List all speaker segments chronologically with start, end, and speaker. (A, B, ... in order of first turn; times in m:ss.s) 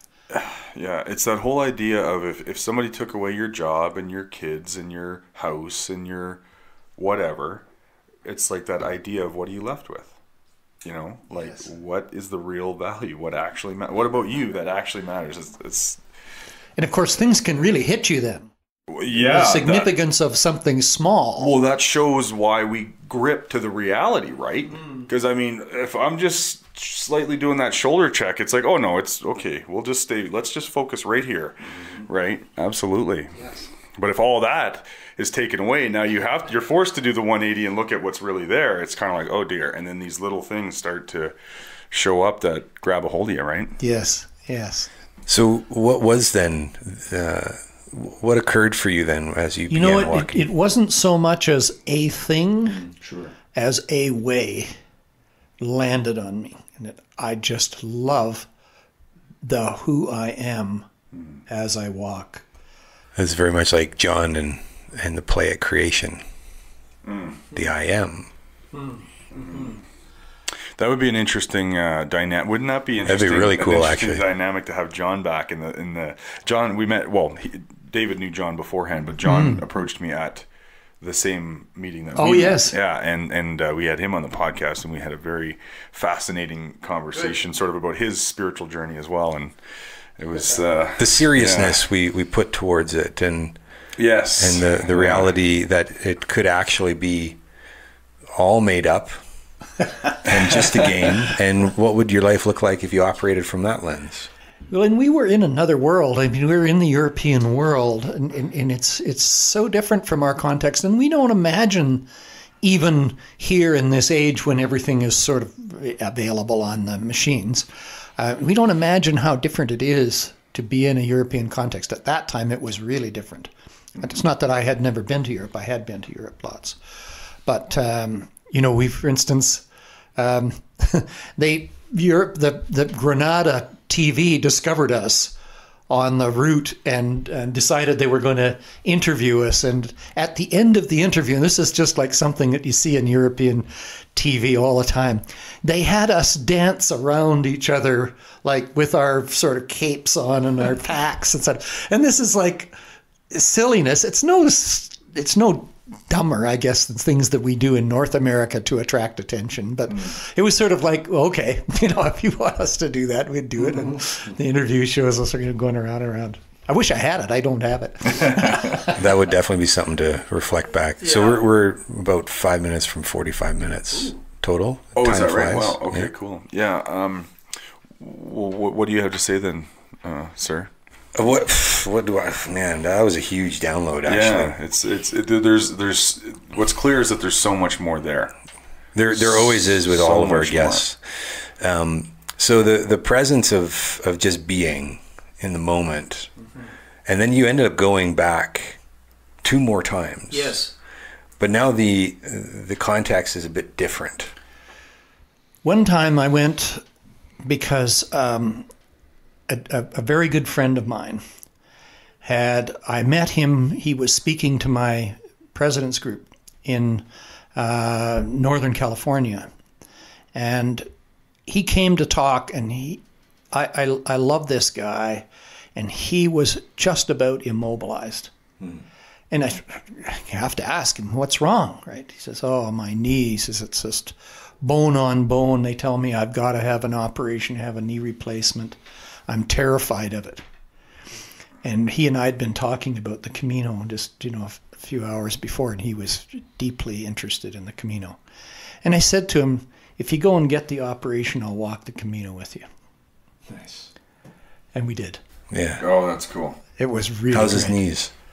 0:00.3-0:06.4 A
0:07.0-0:07.6 A
0:08.2-0:10.1 A
0:10.8-0:16.0 A
0:16.8-0:18.5 B
0:18.9-0:19.9 A
0:19.1-0:21.5 B
0:21.4-0:33.4 A
0:33.9-0:41.3 A
0:41.9-0:43.8 A
0:43.8-0:44.9 B
0:45.3-0:50.4 C
0:49.7-0:52.9 B
0:53.0-0:53.3 A
0:53.5-0:54.7 B
0:55.6-0:58.5 B
0:59.4-1:00.9 B
1:01.5-1:02.4 B
1:03.1-1:06.2 C
1:07.0-1:07.4 A
1:07.5-1:08.3 C
1:09.3-1:09.7 A
1:10.8-1:20.4 A
1:13.0-1:14.3 C
1:19.2-1:19.6 B
1:21.0-1:29.5 A
1:22.2-1:22.7 B
1:30.2-1:31.8 A
1:31.0-1:33.6 C
1:34.0-1:35.3 A
1:34.4-1:37.4 C
1:38.3-1:39.1 C
1:40.1-1:44.3 C
1:44.7-1:52.0 B
1:52.6-1:57.6 B
1:58.2-2:06.8 B
2:07.4-2:09.6 B
2:10.2-2:15.3 B
2:15.9-2:32.7 B
2:33.3-2:49.0 B
2:48.8-2:56.1 C
2:55.0-2:57.3 A
2:58.0-3:00.7 A
3:01.1-3:04.6 C
3:04.0-3:08.3 A
3:08.9-3:11.0 C
3:09.1-3:10.8 A
3:11.6-3:16.3 C
3:17.0-3:18.8 C
3:19.4-3:20.6 C
3:20.3-3:20.7 B
3:21.4-3:24.3 C
3:25.6-3:26.8 B
3:27.4-3:28.6 B
3:29.5-3:31.2 B
3:32.2-3:37.0 B
3:37.6-3:39.5 B
3:40.3-3:40.9 B
3:41.5-3:43.0 B
3:43.5-3:48.3 B
3:49.3-3:58.8 B
3:59.3-4:00.4 B
4:01.6-4:08.2 B
4:08.8-4:12.6 B
4:13.5-4:13.9 C
4:14.7-4:15.2 B
4:15.5-4:15.8 C
4:15.8-4:16.6 A
4:16.8-4:17.8 B
4:17.3-4:18.1 C